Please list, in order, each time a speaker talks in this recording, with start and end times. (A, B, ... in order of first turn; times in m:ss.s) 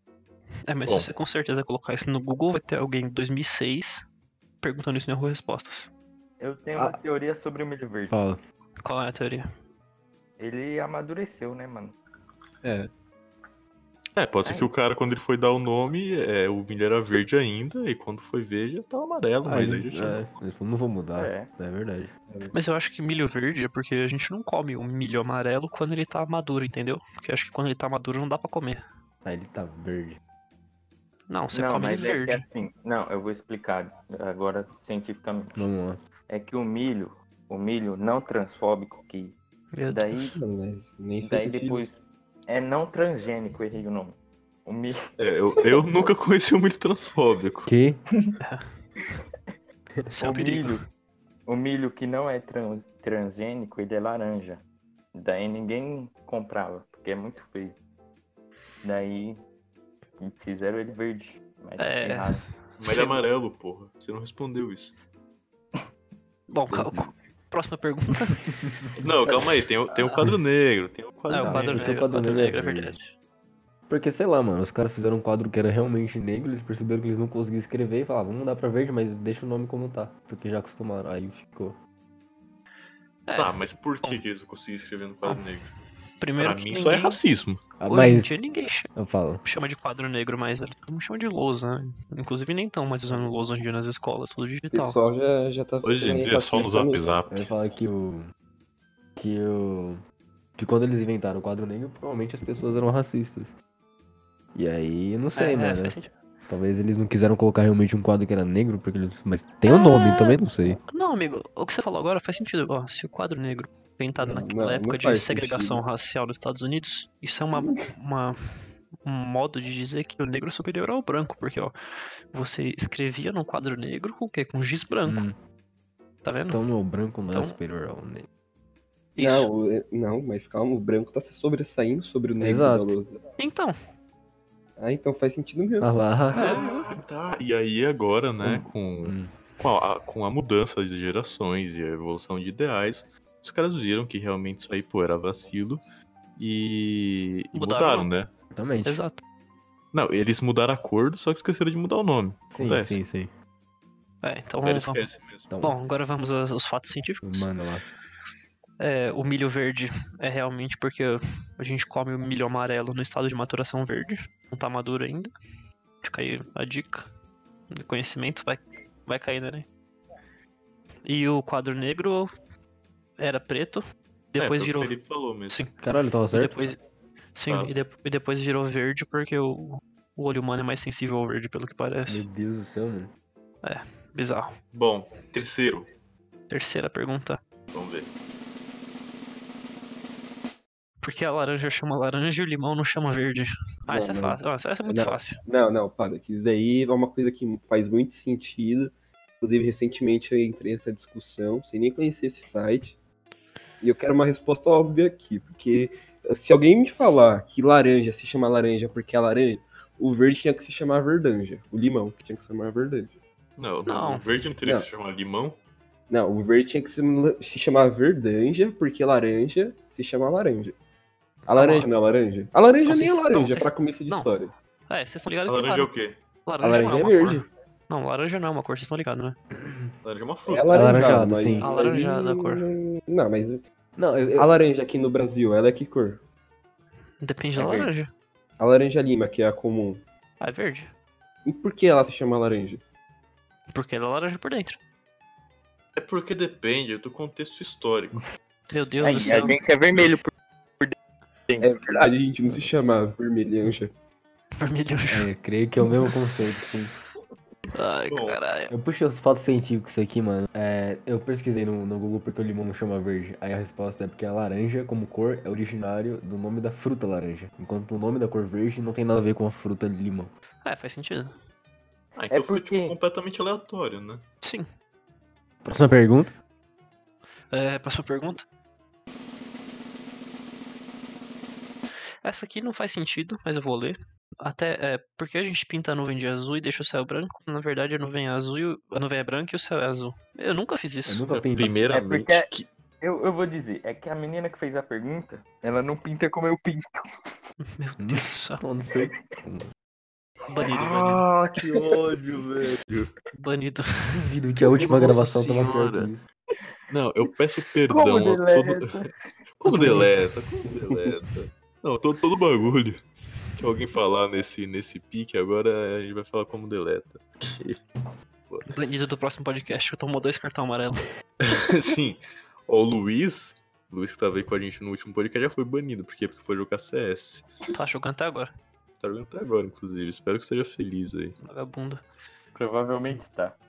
0:00.7-0:04.0 A
0:04.6-0:05.9 A
0:06.4-0:08.2 B
0:08.1-0:08.4 C
0:08.8-0:09.5 A
0:10.4-0:12.0 B
0:12.6-0:12.9 D
0:14.2-0:20.3 E
0:14.4-0:14.7 B
0:19.4-0:22.1 C
0:21.2-0:21.5 B
0:22.5-0:28.8 A
0:29.2-0:30.2 C
0:31.3-0:32.4 A
0:31.5-0:35.6 B
0:35.6-0:36.0 C
0:36.3-0:39.4 B
0:39.7-0:40.3 A
0:39.9-0:40.4 B
0:40.3-0:41.8 D
0:41.2-0:45.0 B
0:45.2-0:47.7 E
0:47.7-0:48.0 C
0:50.1-0:50.8 A
0:50.2-0:50.8 B
0:51.5-0:54.6 B
0:55.1-0:57.8 B
0:58.8-0:59.4 B
1:00.2-1:02.4 B
1:01.8-1:03.2 A
1:02.8-1:05.0 E
1:06.5-1:08.4 A
1:06.7-1:07.1 C
1:09.0-1:11.9 E
1:11.3-1:13.1 A
1:11.4-1:13.0 C
1:13.9-1:21.8 C
1:23.3-1:24.2 A
1:23.4-1:25.7 E
1:26.2-1:27.2 A
1:26.4-1:27.6 E
1:27.8-1:28.3 C
1:27.9-1:28.9 A
1:29.0-1:29.4 C
1:29.4-1:35.0 A
1:34.7-1:37.2 D
1:35.8-1:37.5 E
1:37.3-1:38.2 C
1:39.2-1:40.0 C
1:40.6-1:43.5 C
1:44.6-1:46.0 C
1:45.4-1:46.1 A
1:46.5-1:50.8 C
1:49.7-1:50.4 A
1:50.9-2:01.7 A
1:54.2-1:55.8 D
1:57.6-1:57.9 D
2:02.3-2:05.2 A
2:05.1-2:05.4 C
2:06.2-2:06.6 A
2:06.5-2:08.3 C
2:09.2-2:09.5 A
2:09.2-2:13.2 D
2:12.4-2:12.9 C
2:13.4-2:13.8 A
2:14.8-2:16.0 D
2:15.8-2:16.6 C
2:16.3-2:25.8 E
2:18.4-2:19.3 C
2:26.4-2:28.3 E
2:27.5-2:28.1 A
2:28.5-2:29.0 C
2:28.9-2:29.2 A
2:29.9-2:33.0 E
2:32.5-2:33.3 C
2:34.2-2:35.1 A
2:34.6-2:35.5 E
2:35.5-2:35.8 C
2:35.6-2:37.5 A
2:37.2-2:37.9 C
2:38.8-2:45.3 A
2:46.0-2:47.1 A
2:47.7-2:49.7 A
2:51.1-2:52.3 A
2:53.2-2:55.0 A
2:54.4-2:55.6 E
2:55.8-2:56.5 C
2:56.3-2:56.8 A
2:57.4-3:02.2 A
2:57.5-2:57.7 E
3:02.1-3:03.1 C
3:03.6-3:04.5 A
3:04.7-3:05.9 E
3:06.5-3:07.4 A
3:07.7-3:08.1 E
3:11.0-3:15.4 A
3:13.9-3:23.0 D
3:23.8-3:33.2 D
3:33.6-3:35.6 E
3:33.9-3:34.2 A
3:36.1-3:40.8 D
3:41.5-3:44.5 D
3:41.5-3:41.9 A
3:42.9-3:44.4 A
3:44.9-3:45.9 A
3:45.5-3:46.2 E
3:46.5-3:49.4 A
3:46.6-3:47.5 D
3:49.6-3:49.9 C
3:50.0-3:51.2 E
3:50.5-3:53.6 D
3:50.7-3:51.7 C
3:51.6-3:52.6 A
3:54.0-3:54.5 C
3:54.4-3:56.2 D
3:57.2-3:58.1 A
3:57.6-3:57.9 B
3:58.6-4:00.0 D
4:00.4-4:00.9 A
4:01.4-4:02.8 D
4:03.7-4:04.8 A
4:06.0-4:08.2 E
4:08.7-4:09.6 A
4:09.0-4:11.0 B
4:11.5-4:12.0 B
4:11.6-4:13.9 D
4:14.6-4:15.3 A
4:15.1-4:16.9 C
4:17.7-4:18.7 A
4:18.1-4:18.4 E
4:18.7-4:30.3 C
4:30.6-4:31.4 A
4:32.2-4:34.2 E
4:32.3-4:33.0 B
4:34.4-4:34.7 A
4:35.6-4:36.3 C
4:37.5-4:38.4 A
4:42.2-4:51.2 A
4:51.1-4:51.8 C
4:51.3-4:52.7 E
4:51.9-4:52.5 B
4:53.0-4:57.4 B
4:57.8-4:58.6 A
4:58.0-4:59.7 C
5:00.5-5:01.2 A
5:00.7-5:03.1 E
5:01.6-5:02.0 B
5:03.4-5:04.1 A
5:04.1-5:06.2 C
5:04.8-5:06.1 E
5:06.9-5:09.0 E
5:07.9-5:09.1 B
5:09.6-5:13.0 E
5:09.7-5:10.4 A
5:13.6-5:17.8 E
5:18.7-5:21.1 A
5:21.4-5:27.5 E
5:27.7-5:28.5 A
5:29.0-5:31.4 E
5:31.4-5:32.0 A
5:32.6-5:33.6 B